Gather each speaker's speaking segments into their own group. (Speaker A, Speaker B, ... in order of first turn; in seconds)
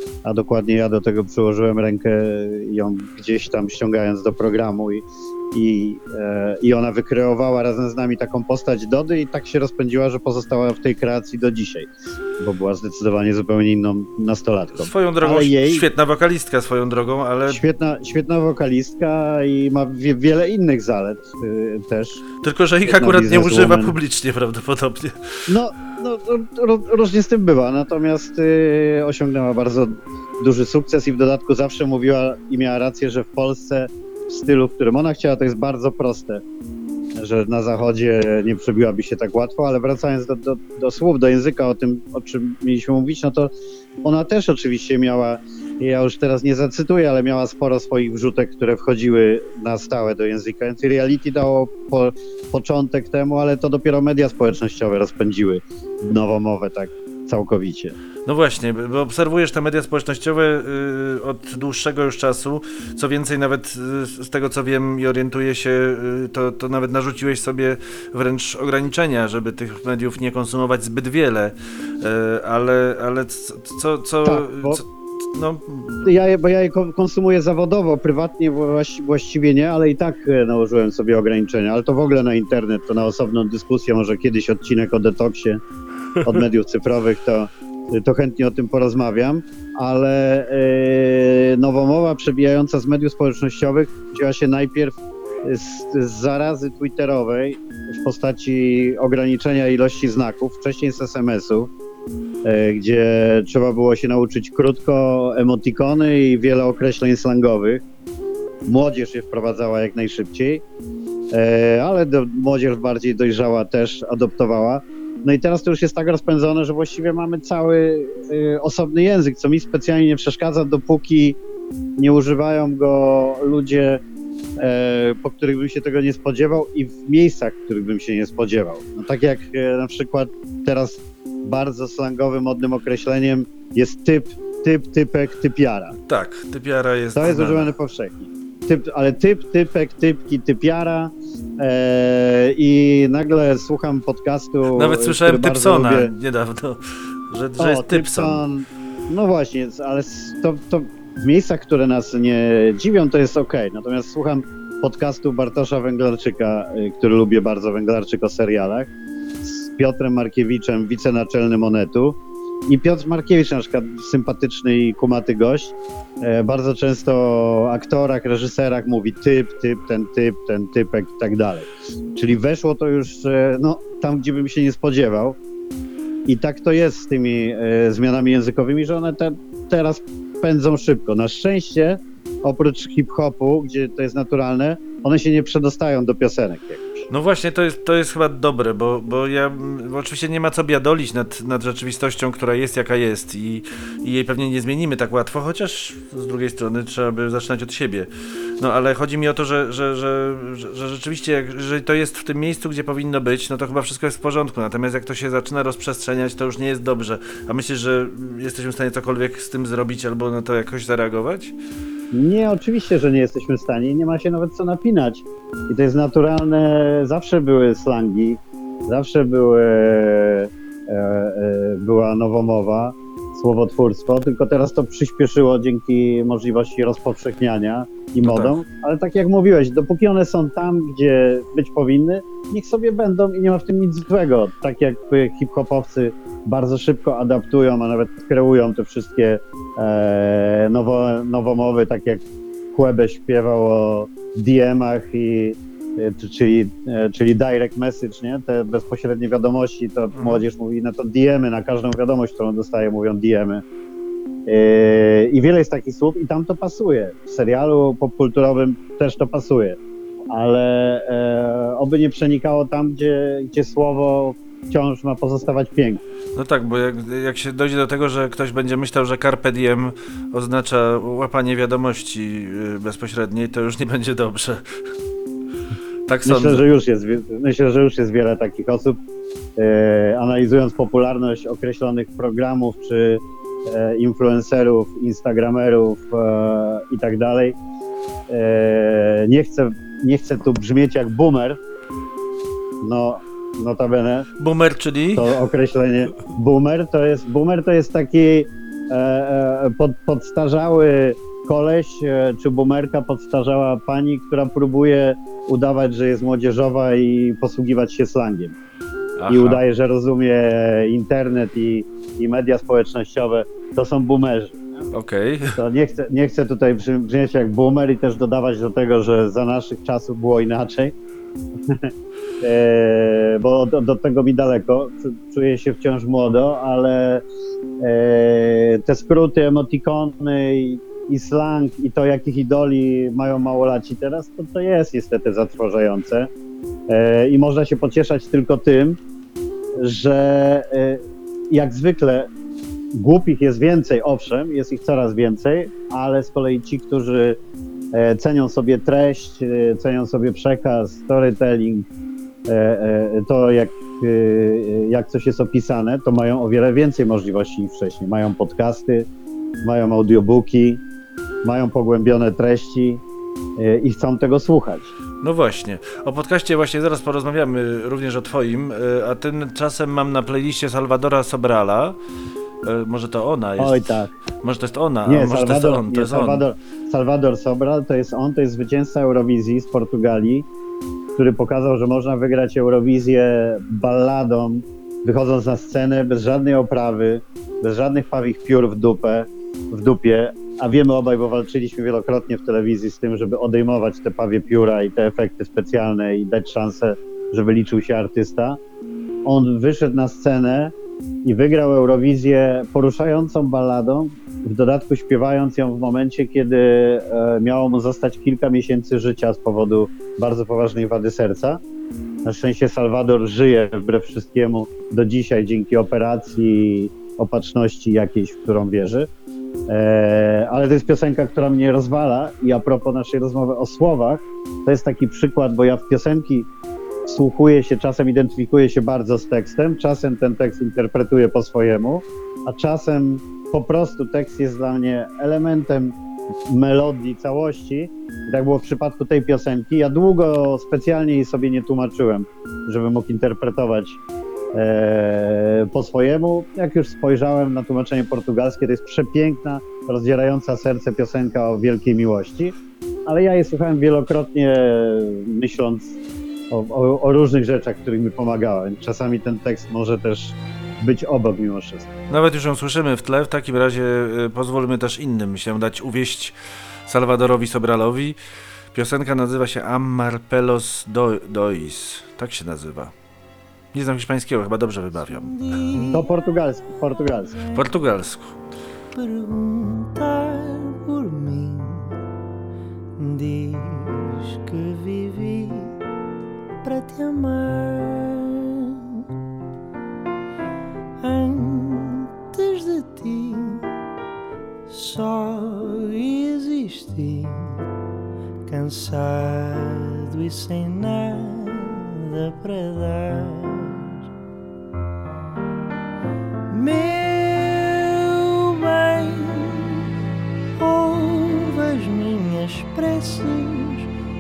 Speaker A: 0.2-15.9, 17.5-22.2, 22.9-24.0, 25.5-36.4, 37.2-43.5, 44.0-58.0, 74.2-74.8, 76.0-85.6, 86.2-101.7, 102.4-107.8, 108.7-110.6, 111.3-121.4, 122.0-124.0, 124.6-135.9, 137.2-146.1, 147.6-158.9, 159.4-175.4, 176.3-187.1, 212.1-253.6, 254.5-259.8, 260.3-266.0, 276.2-279.0, 279.6-287.6, 288.3-291.6, 292.8-294.3, 295.1-308.6, 309.3-314.6, 315.6-320.9, 321.7-327.2, 327.8-336.3, 336.9-339.0, 339.8-342.3, 342.9-347.4, 347.9-351.9, 352.5-359.1, 359.6-360.8, 361.4-363.0, 363.6-364.9, 373.6-374.1, 375.1-380.5, 381.2-398.6, 399.2-411.6, 412.2-419.1, 419.7-426.5, 427.1-435.9, 436.5-444.0, 444.5-452.6, 453.1-456.0, 456.5-461.9, 475.9-477.3
Speaker B: 14.8-17.6, 22.4-25.2, 58.3-76.1, 136.1-137.7, 144.7-148.4, 187.1-198.1, 198.6-211.5, 228.2-228.6, 250.2-250.4, 266.4-274.7, 276.1-276.7, 294.4-295.3, 309.2-309.6, 314.9-315.6, 365.2-372.0, 372.6-376.4, 462.1-466.4, 466.9-468.2, 468.7-472.9, 473.7-475.3, 477.5-478.4
Speaker C: 475.1-476.1, 477.3-477.6, 479.0-482.0, 483.0-485.8, 486.6-489.0, 491.0-493.7, 494.7-497.6, 498.5-503.9, 506.5-509.9, 510.6-513.9